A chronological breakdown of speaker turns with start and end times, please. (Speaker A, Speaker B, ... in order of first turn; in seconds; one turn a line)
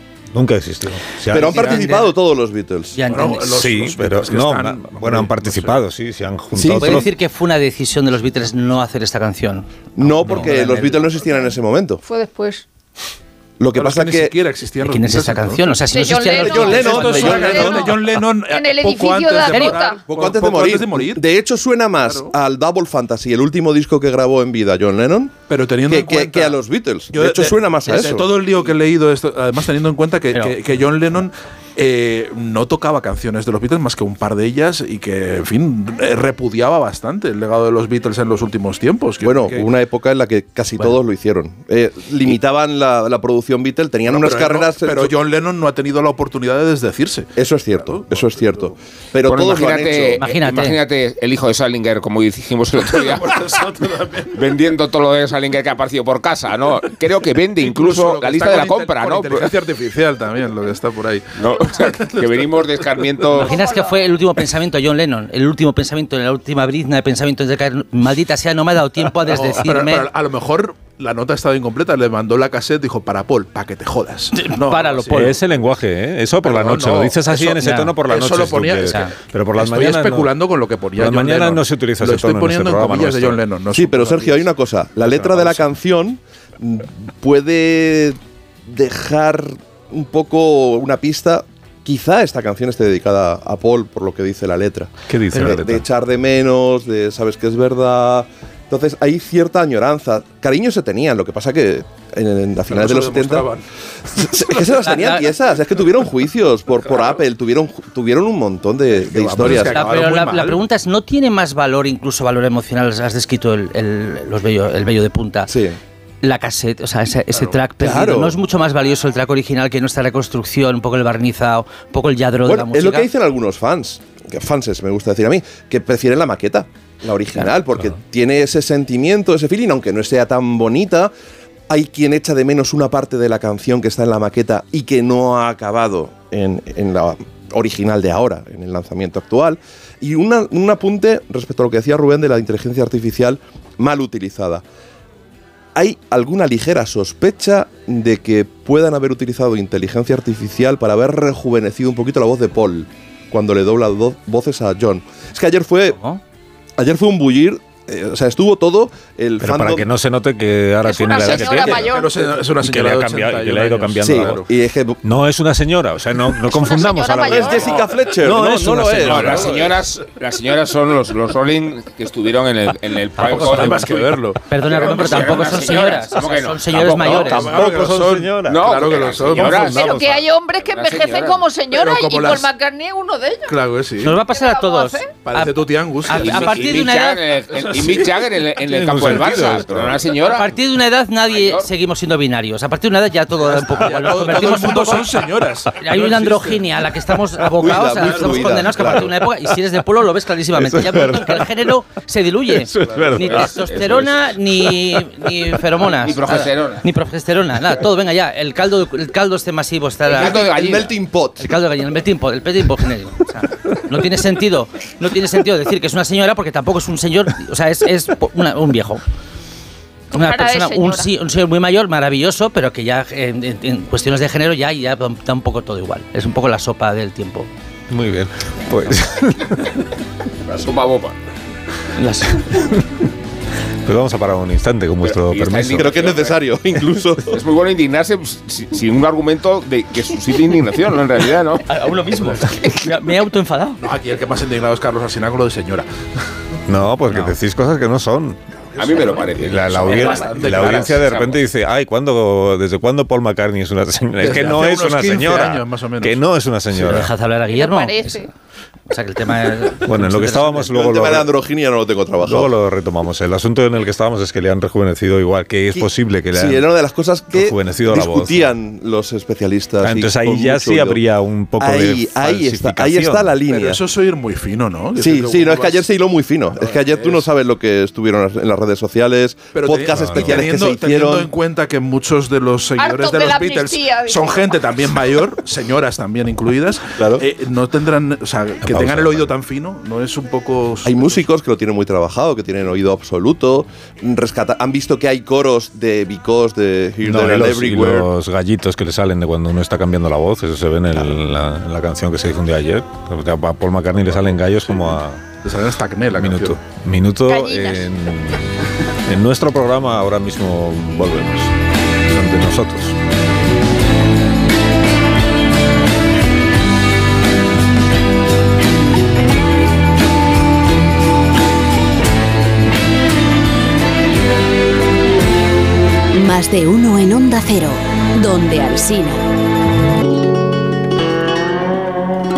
Speaker A: 0.3-1.7
Speaker B: 1.3-3.0
Speaker C: 1.4-2.1
Speaker C: 2.9-3.5
Speaker D: 3.1-5.8
Speaker A: 3.5-7.1
Speaker B: 6.5-7.1
Speaker C: 6.8-11.1
Speaker B: 10.0-12.0
Speaker E: 12.0-12.7
Speaker B: 13.6-14.3
Speaker D: 13.7-21.2
Speaker C: 14.8-17.8
Speaker E: 15.8-20.0
Speaker B: 16.8-17.8
Speaker C: 19.5-19.8
Speaker B: 20.1-28.3
Speaker D: 22.0-22.3
Speaker D: 25.5-39.7
Speaker B: 39.2-45.1
Speaker D: 44.0-48.7
Speaker B: 47.4-50.2
Speaker F: 49.2-53.6
Speaker C: 50.2-50.8
Speaker D: 52.9-54.3
Speaker F: 54.3-59.6
Speaker D: 57.6-63.3
Speaker F: 61.4-63.6
Speaker C: 63.4-70.1
Speaker E: 63.4-64.1
Speaker D: 69.1-75.6
Speaker C: 74.3-75.4
Speaker A: 75.1-80.3
Speaker D: 76.4-79.0
Speaker C: 77.5-78.0
Speaker C: 78.8-79.1
Speaker D: 79.6-84.5
Speaker A: 81.0-83.4
Speaker B: 83.7-103.5
Speaker D: 85.0-85.7
Speaker A: 95.1-95.8
Speaker D: 102.7-103.6
Speaker B: 104.1-109.9
Speaker C: 104.5-105.3
Speaker D: 109.0-110.6
Speaker C: 109.4-115.5
Speaker B: 115.5-115.8
Speaker C: 116.2-123.1
Speaker B: 117.8-118.4
Speaker B: 122.4-131.1
Speaker B: 131.7-144.6
Speaker B: 145.7-156.0
Speaker C: 155.9-156.2
Speaker B: 156.8-159.8
Speaker A: 159.4-161.9
Speaker E: 160.8-162.1
Speaker D: 161.3-164.4
Speaker A: 162.6-164.4
Speaker B: 164.0-165.0
Speaker A: 165.0-169.7
Speaker E: 166.5-167.8
Speaker B: 167.2-169.7
Speaker F: 169.0-177.6
Speaker D: 173.2-175.6
Speaker C: 173.2-173.8
Speaker C: 174.5-177.5
Speaker D: 176.9-179.8
Speaker A: 177.1-180.2
Speaker F: 178.4-181.5
Speaker E: 179.6-183.6
Speaker D: 181.7-182.5
Speaker D: 183.4-184.2
Speaker C: 184.0-187.2
Speaker E: 184.2-185.1
Speaker D: 185.2-186.9
Speaker F: 186.1-190.5
Speaker D: 187.6-188.1
Speaker A: 188.6-190.0
Speaker C: 190.2-210.8
Speaker F: 191.3-191.7
Speaker D: 193.4-196.9
Speaker B: 197.6-199.2
Speaker D: 198.0-198.5
Speaker A: 200.5-201.7
Speaker A: 202.5-203.5
Speaker F: 203.2-204.4
Speaker A: 204.7-205.4
Speaker F: 205.8-206.8
Speaker F: 210.1-210.9
Speaker B: 210.1-211.5
Speaker C: 211.4-219.0
Speaker C: 220.1-227.5
Speaker E: 220.2-221.1
Speaker A: 227.9-229.8
Speaker F: 230.4-231.2
Speaker C: 232.0-232.6
Speaker A: 232.5-232.8
Speaker A: 233.8-236.0
Speaker F: 235.0-236.4
Speaker B: 235.8-237.4
Speaker F: 237.2-241.6
Speaker C: 241.7-243.8
Speaker D: 243.8-245.9
Speaker A: 246.7-248.4
Speaker D: 248.8-251.1
Speaker F: 248.8-251.4
Speaker A: 249.3-257.1
Speaker D: 254.2-256.2
Speaker C: 256.7-258.3
Speaker E: 257.5-258.3
Speaker C: 258.9-260.7
Speaker A: 259.8-261.3
Speaker B: 260.7-262.5
Speaker A: 262.2-266.6
Speaker B: 265.7-271.0
Speaker A: 267.3-268.5
Speaker A: 269.8-273.4
Speaker B: 271.6-273.8
Speaker D: 273.4-275.9
Speaker B: 275.0-281.3
Speaker D: 276.5-277.3
Speaker D: 279.5-291.2
Speaker A: 279.9-280.5
Speaker E: 282.8-284.4
Speaker B: 287.0-287.2
Speaker A: 288.6-289.3
Speaker B: 290.8-298.1
Speaker A: 297.0-305.2
Speaker D: 304.0-306.6
Speaker A: 306.2-312.9
Speaker E: 307.2-307.9
Speaker G: 326.1-329.3